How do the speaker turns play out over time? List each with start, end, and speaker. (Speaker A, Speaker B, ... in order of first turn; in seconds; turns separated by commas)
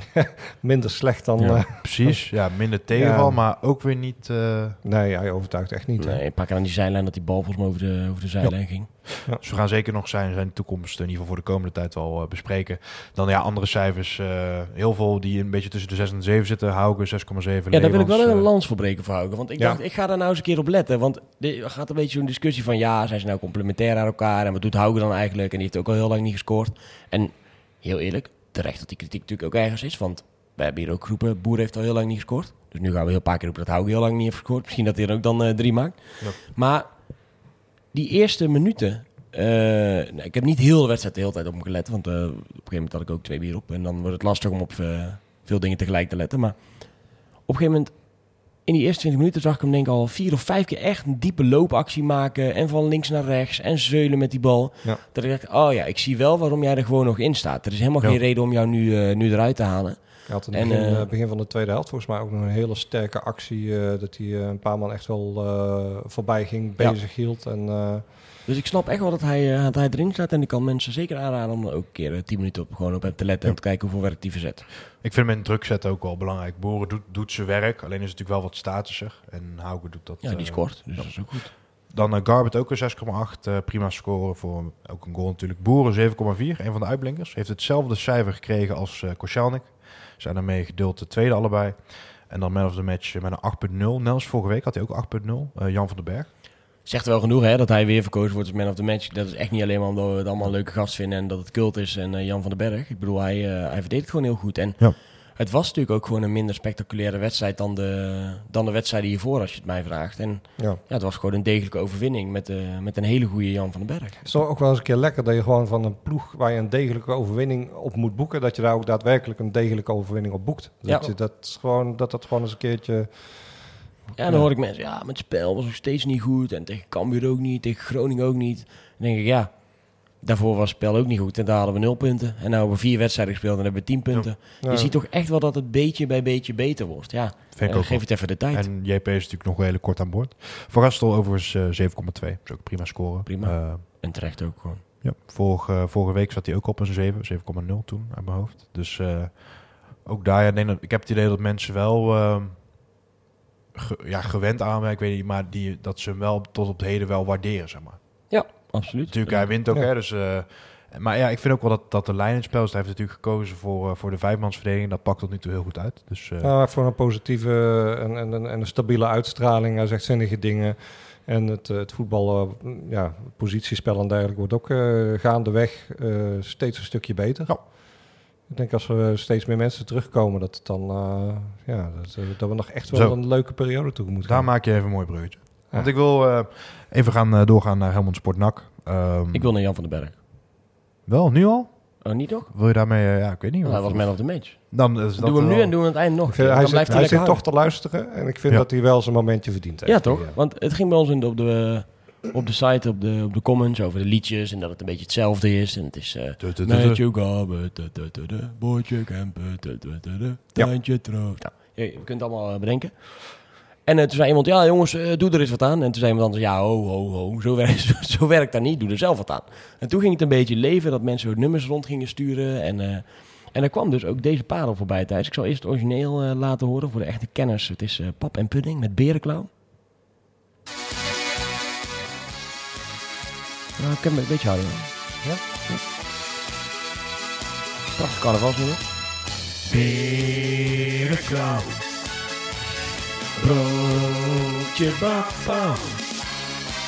Speaker A: 0.1-3.4, Speaker B: 1.4-4.8, Speaker A: 4.8-6.2, Speaker C: 6.0-8.9, Speaker B: 8.4-18.5, Speaker C: 17.7-61.1, Speaker A: 60.3-68.1, Speaker C: 68.5-74.7, Speaker B: 75.0-96.3, Speaker C: 80.2-81.5, Speaker C: 96.8-114.2, Speaker A: 114.2-124.5, Speaker C: 120.8-121.1, Speaker C: 124.2-138.7, Speaker A: 134.6-134.9, Speaker B: 137.5-144.0, Speaker C: 143.2-144.8, Speaker B: 145.0-152.7, Speaker B: 153.7-166.5, Speaker C: 158.3-159.5, Speaker A: 166.4-185.1, Speaker B: 182.9-183.2, Speaker B: 184.2-189.5, Speaker C: 189.3-190.1, Speaker B: 191.1-195.8, Speaker C: 192.0-192.5, Speaker C: 193.6-197.4, Speaker A: 196.3-200.3, Speaker B: 196.9-197.2, Speaker C: 199.8-229.5, Speaker B: 206.4-207.0, Speaker C: 233.8-234.9, Speaker C: 237.9-238.9, Speaker C: 239.7-241.8, Speaker C: 243.3-246.0